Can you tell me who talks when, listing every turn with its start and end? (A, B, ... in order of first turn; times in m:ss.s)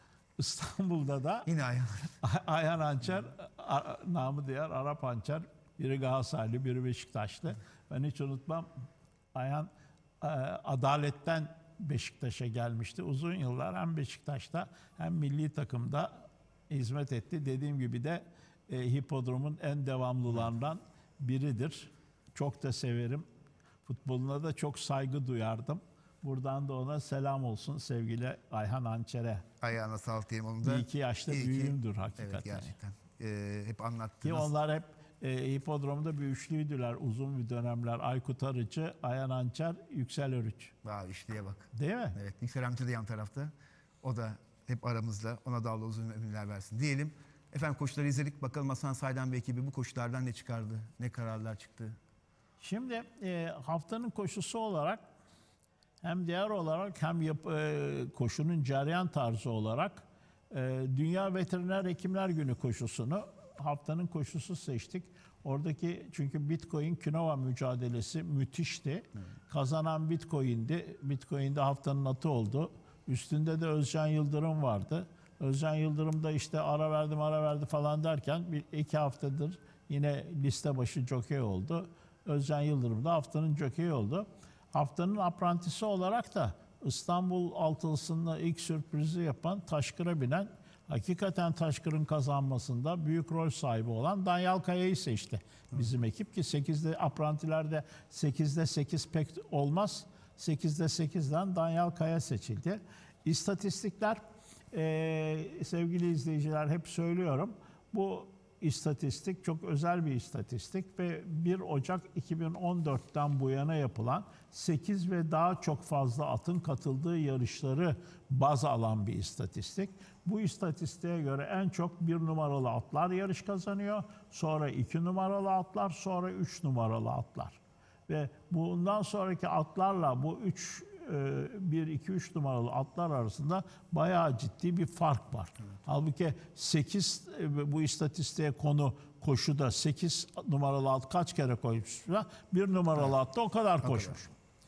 0:00.4-0:01.5 A
0:01.5-0:02.1 B
0:02.2-0:08.7 A
0:09.4-0:09.7 A
0:10.2-0:23.3 A
0:23.8-0:29.5 A
0:29.6-0:34.5 B
0:30.6-0:32.7 A
0:34.2-0:40.8 A
0:40.8-0:52.0 B
0:41.7-0:42.2 A
0:52.6-0:55.0 A
0:56.0-1:44.2 A
1:44.7-2:24.3 A
2:23.8-2:24.2 B